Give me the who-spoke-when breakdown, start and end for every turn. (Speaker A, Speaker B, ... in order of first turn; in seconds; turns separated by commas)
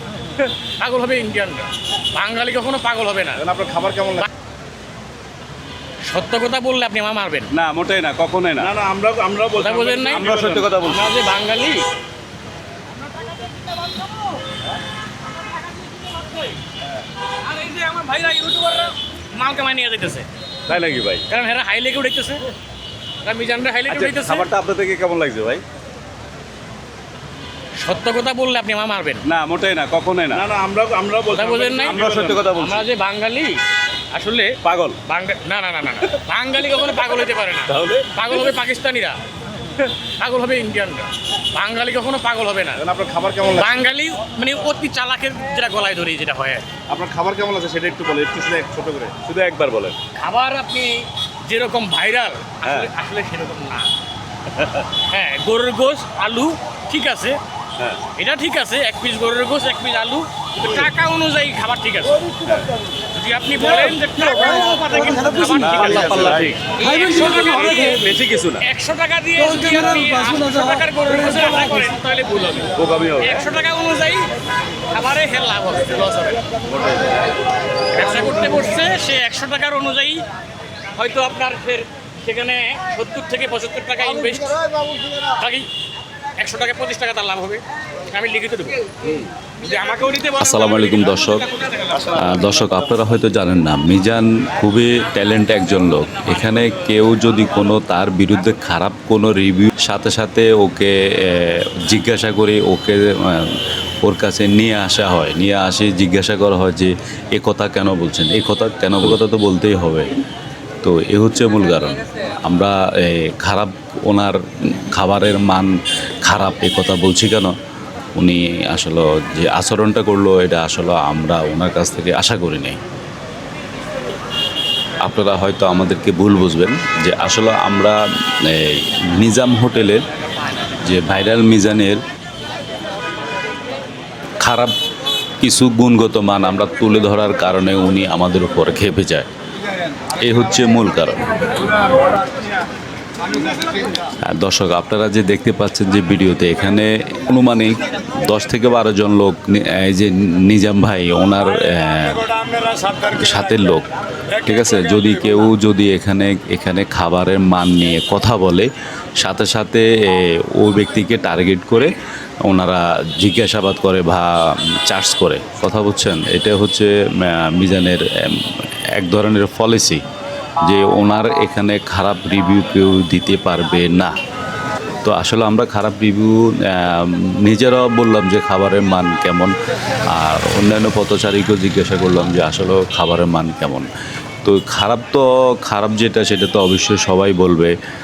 Speaker A: 0.3-3.4, Speaker B: 3.4-4.3, Speaker A: 6.1-7.5, Speaker C: 7.5-8.7, Speaker B: 8.6-10.7, Speaker A: 9.6-10.3, Speaker C: 10.1-11.1, Speaker A: 10.8-11.8, Speaker A: 13.5-14.2, Speaker A: 15.4-16.6, Speaker A: 17.3-20.3, Speaker C: 20.7-21.2, Speaker A: 21.3-22.4, Speaker A: 23.2-24.5, Speaker C: 23.9-25.6, Speaker A: 27.8-29.2, Speaker C: 29.3-30.5, Speaker B: 30.3-32.5, Speaker A: 31.3-33.6, Speaker C: 31.8-32.8, Speaker A: 34.1-39.2, Speaker C: 34.6-35.0, Speaker C: 37.7-38.1, Speaker A: 39.8-42.8, Speaker B: 42.8-43.8, Speaker A: 43.6-46.7, Speaker B: 46.9-49.2, Speaker C: 49.1-50.0, Speaker A: 50.1-53.9, Speaker C: 52.6-52.9, Speaker C: 54.5-54.8, Speaker A: 55.0-57.4, Speaker A: 58.1-62.3, Speaker A: 63.1-68.1, Speaker C: 65.5-66.6, Speaker C: 67.3-68.7, Speaker A: 68.6-74.3, Speaker C: 72.8-73.5, Speaker A: 74.9-76.5, Speaker C: 76.8-77.1, Speaker A: 77.9-80.2, Speaker A: 80.9-85.7, Speaker A: 86.4-88.8, Speaker A: 89.6-91.1, Speaker D: 90.4-91.5, Speaker C: 91.9-92.3, Speaker D: 92.1-110.1, Speaker D: 110.8-117.5, Speaker D: 118.2-122.8, Speaker D: 125.0-130.0, Speaker D: 130.8-132.0, Speaker D: 134.4-134.7, Speaker D: 135.4-139.3, Speaker D: 140.2-141.2, Speaker D: 144.2-153.9, Speaker D: 154.4-170.0, Speaker D: 170.6-174.2, Speaker D: 175.0-179.5, Speaker D: 180.1-183.9, Speaker D: 184.4-187.8